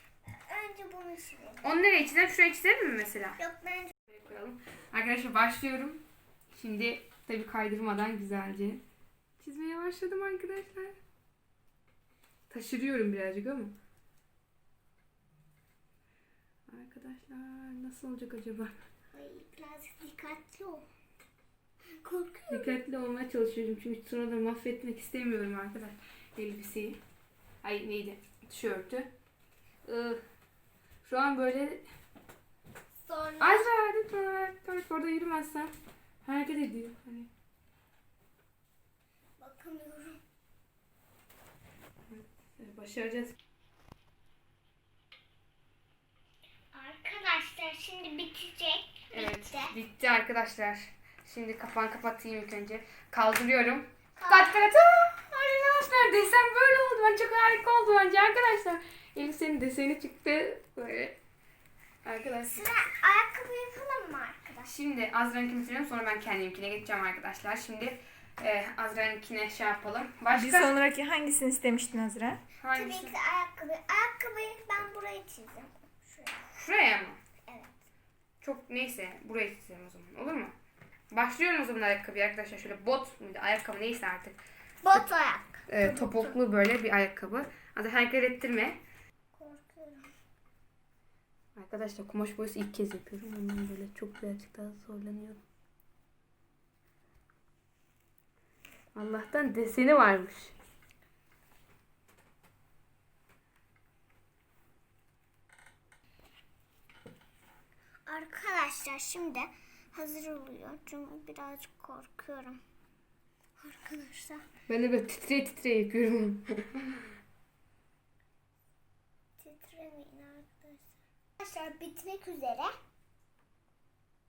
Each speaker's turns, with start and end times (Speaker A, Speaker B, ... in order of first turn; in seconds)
Speaker A: 0.4-1.6, 3.4-3.9, 19.1-20.9, 22.0-22.7, 33.0-33.7, 39.4-40.2, 46.7-49.7, 54.2-55.1, 62.5-64.7, 72.7-76.5, 77.5-77.7, 84.8-86.4, 89.3-90.1, 108.1-112.6, 113.6-114.4, 119.4-122.7
Speaker B: 1.6-3.4, 4.1-6.0, 6.5-8.8, 9.4-11.0, 12.5-13.8, 16.7-18.8, 22.5-27.0, 27.6-29.1, 29.9-30.2, 31.0-31.8, 33.4-35.7, 36.2-37.3, 42.1-43.4, 49.1-61.2, 62.0-62.6, 64.7-70.7, 72.6-73.1, 76.6-77.2, 78.4-80.5, 81.1-84.4, 85.7-88.8, 91.6-95.4, 99.0-100.6, 114.7-117.1
Speaker C: 70.3-72.4